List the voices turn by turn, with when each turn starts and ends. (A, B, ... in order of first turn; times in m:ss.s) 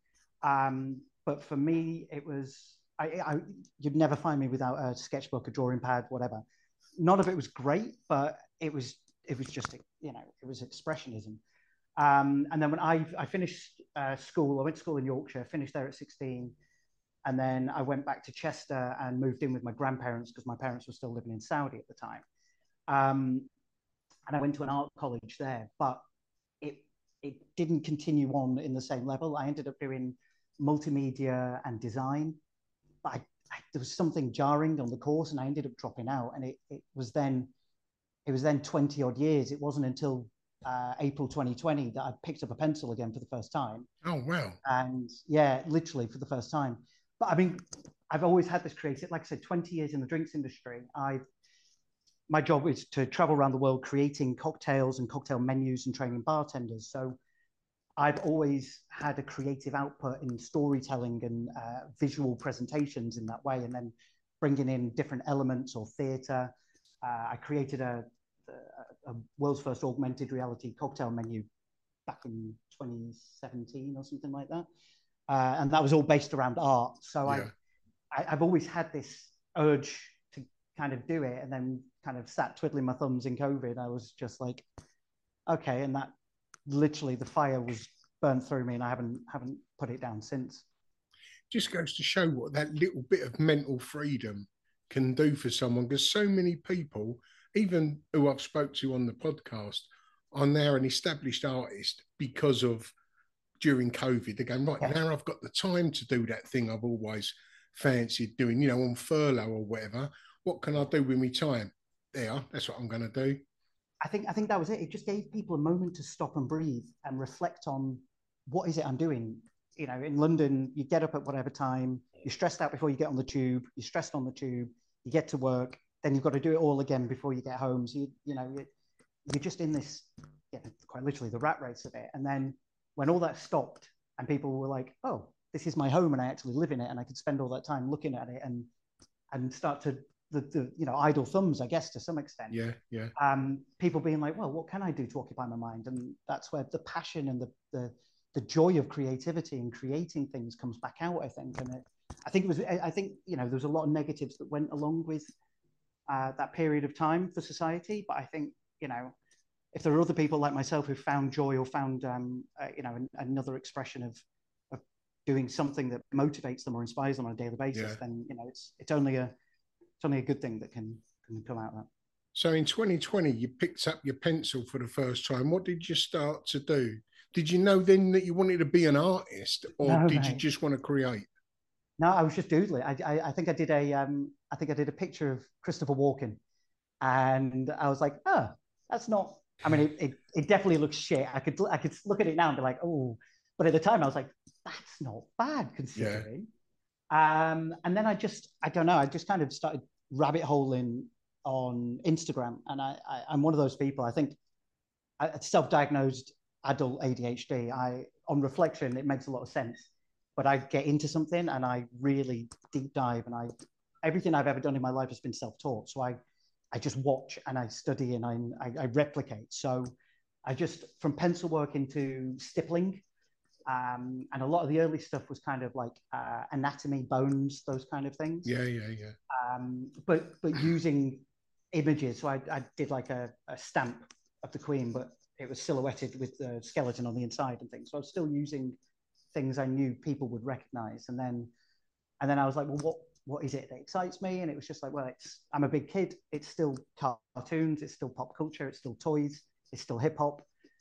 0:00.4-0:06.4 A
0:07.0-0:11.4 A
0:12.0-0:16.5 A
0:17.2-0:22.2 A
0:22.9-0:23.5 A
0:24.3-0:26.0 A
0:26.6-0:32.4 A
0:33.0-0:37.5 A
0:38.2-0:43.9 A
0:44.0-0:44.6 B
0:44.6-0:51.2 A
0:52.3-0:57.2 A
0:58.0-1:11.4 A
1:12.1-1:14.6 A
1:15.3-1:17.5 A
1:18.1-1:24.6 A
1:25.5-1:26.1 A
1:26.7-1:30.6 A
1:31.5-1:42.9 B
1:43.6-1:53.4 B
1:54.0-2:08.7 A
2:09.3-2:18.7 A
2:19.3-2:22.6 A
2:22.5-2:23.1 B
2:23.2-2:35.3 A
2:36.1-2:39.1 A
2:39.7-2:49.3 A
2:47.7-2:48.0 B
2:50.0-2:51.9 A
2:52.3-3:01.3 B
2:59.8-3:00.4 A
3:02.0-3:06.4 A
3:07.0-3:16.5 A
3:16.0-3:16.2 B
3:17.1-3:24.4 A
3:25.2-3:33.5 A
3:34.0-3:36.2 A
3:36.7-3:39.9 A
3:40.4-3:43.0 A
3:43.7-3:48.5 A
3:48.4-3:49.2 B
3:49.3-3:58.8 A
3:59.3-4:01.5 A
4:02.2-4:10.5 A